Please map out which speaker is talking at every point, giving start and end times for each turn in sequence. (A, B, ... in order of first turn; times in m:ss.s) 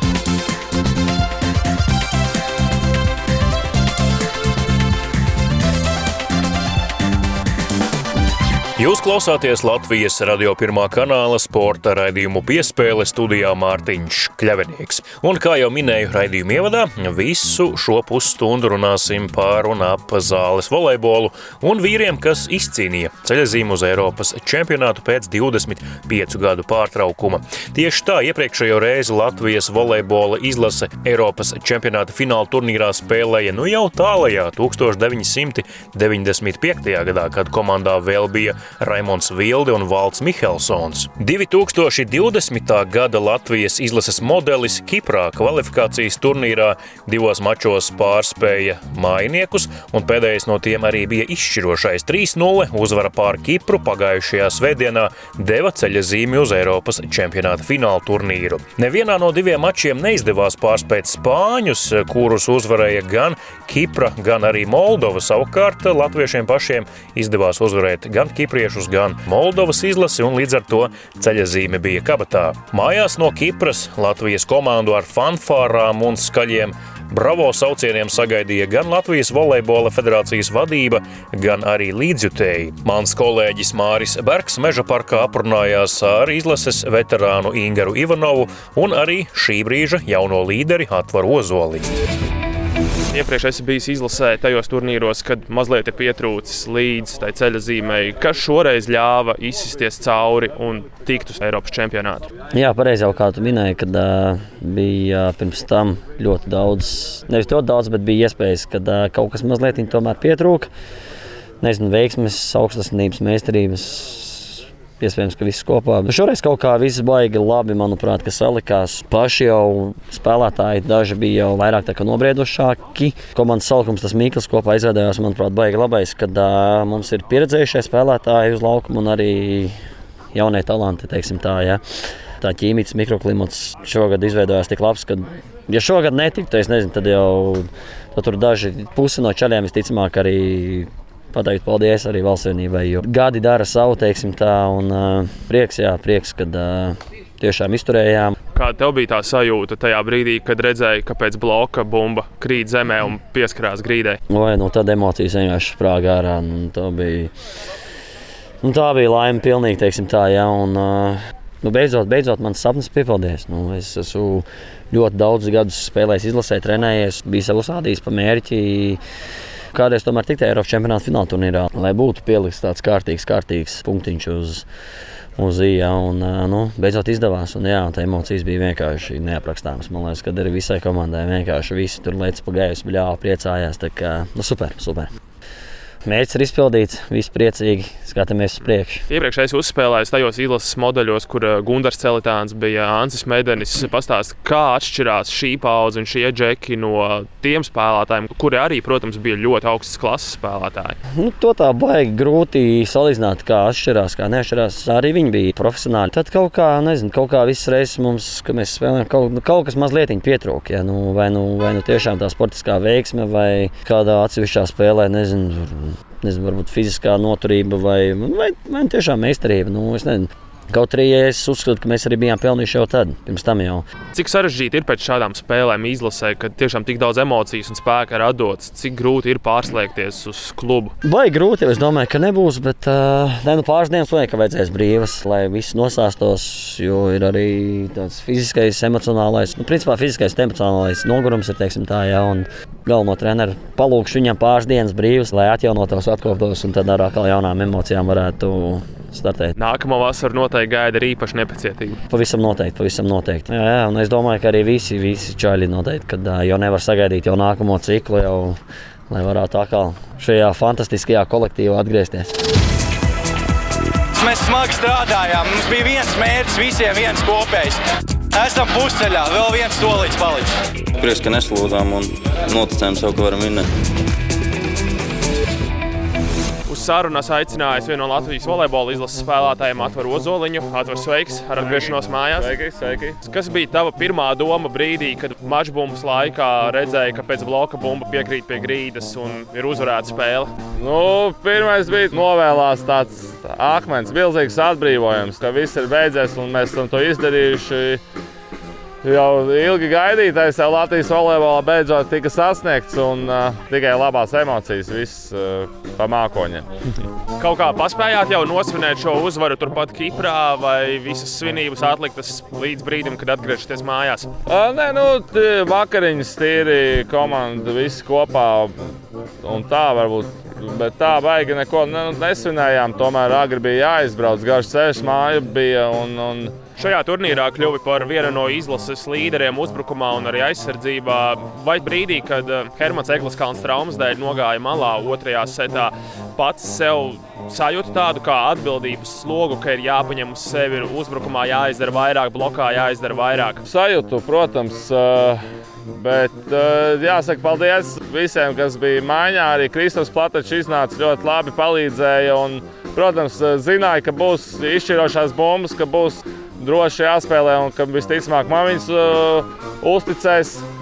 0:08.8-1:31.9 A
1:33.1-1:42.3 B
1:42.5-1:50.7 C
1:51.6-2:09.8 C
2:10.3-2:11.8 C
2:12.4-2:28.4 C
2:28.6-2:34.2 B
2:34.3-2:37.3 C
2:38.6-2:49.0 C
2:49.7-2:54.6 C
2:55.4-3:05.1 C
3:06.1-3:09.0 C
3:09.1-3:21.0 B
3:21.1-3:43.8 C
3:44.1-3:50.9 B
3:51.0-4:09.6 C
4:09.6-4:12.0 B
4:12.1-4:18.6 C
4:19.1-4:22.3 C
4:24.2-4:27.8 D
4:28.3-4:30.5 D
4:31.0-4:33.7 E
4:36.7-4:42.5 B
4:41.6-4:43.2 F
4:43.2-4:50.5 B
4:50.8-4:58.0 F
4:59.0-5:06.7 F
5:07.4-5:14.3 B
5:14.5-5:18.8 F
5:19.4-5:26.6 F
5:26.8-5:43.6 B
5:43.7-6:00.6 F